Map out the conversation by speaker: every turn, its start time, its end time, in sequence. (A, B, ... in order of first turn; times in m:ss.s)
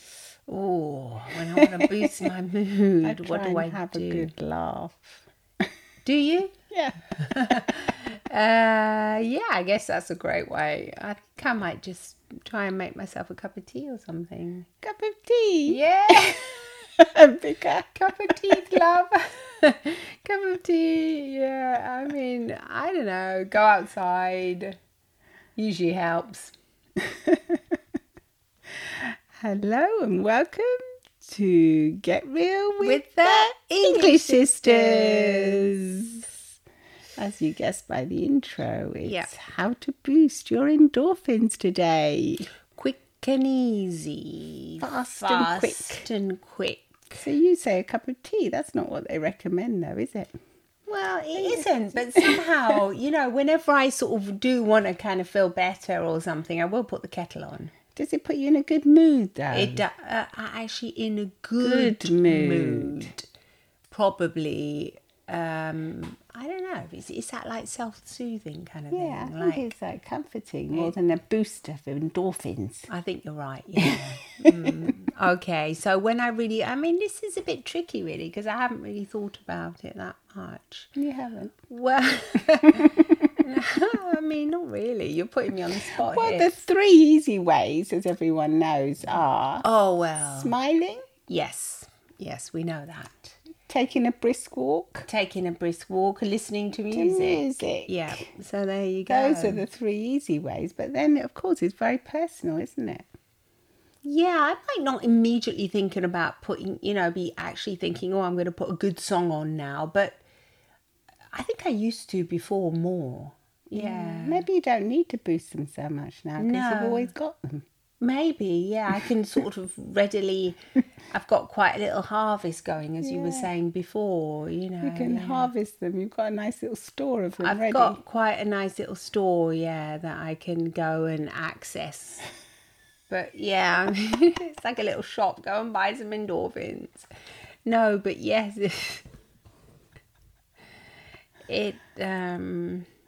0:00.5-0:04.3 A
0:01.5-0:02.2 B
0:03.0-0:05.2 B
0:06.0-0:06.5 A
0:06.7-0:07.8 B
0:07.2-0:14.7 A
0:14.8-0:18.8 B
0:15.7-0:16.7 A
0:17.9-0:24.8 A
0:25.6-0:26.5 A
0:27.0-0:27.6 B
0:28.8-0:36.2 B
0:32.8-0:35.7 A
0:37.2-0:42.5 B
0:39.0-0:39.3 A
0:42.8-0:47.2 A
0:44.8-0:46.0 B
0:47.2-0:50.4 B
0:50.9-0:57.7 A
0:51.4-0:52.4 B
0:58.0-0:59.8 B
0:59.5-1:03.3 A
1:01.6-1:03.1 B
1:03.9-1:09.6 A
1:08.9-1:12.9 B
1:12.9-1:20.9 A
1:13.8-1:14.9 B
1:21.0-1:21.5 B
1:21.6-1:26.5 A
1:22.7-1:23.3 B
1:25.8-1:29.6 B
1:29.6-1:30.5 A
1:30.2-1:31.1 B
1:31.3-1:33.4 A
1:33.7-1:35.1 B
1:35.1-1:39.6 A
1:36.9-1:38.3 B
1:39.1-1:43.1 B
1:44.0-1:50.2 A
1:51.3-1:54.4 A
1:53.7-1:57.6 B
1:56.4-1:57.1 A
1:58.0-2:00.6 A
2:01.1-2:05.5 A
2:03.0-2:03.5 B
2:04.8-2:08.0 B
2:07.4-2:12.2 A
2:13.1-2:17.1 A
2:17.6-2:19.0 A
2:21.5-2:22.9 A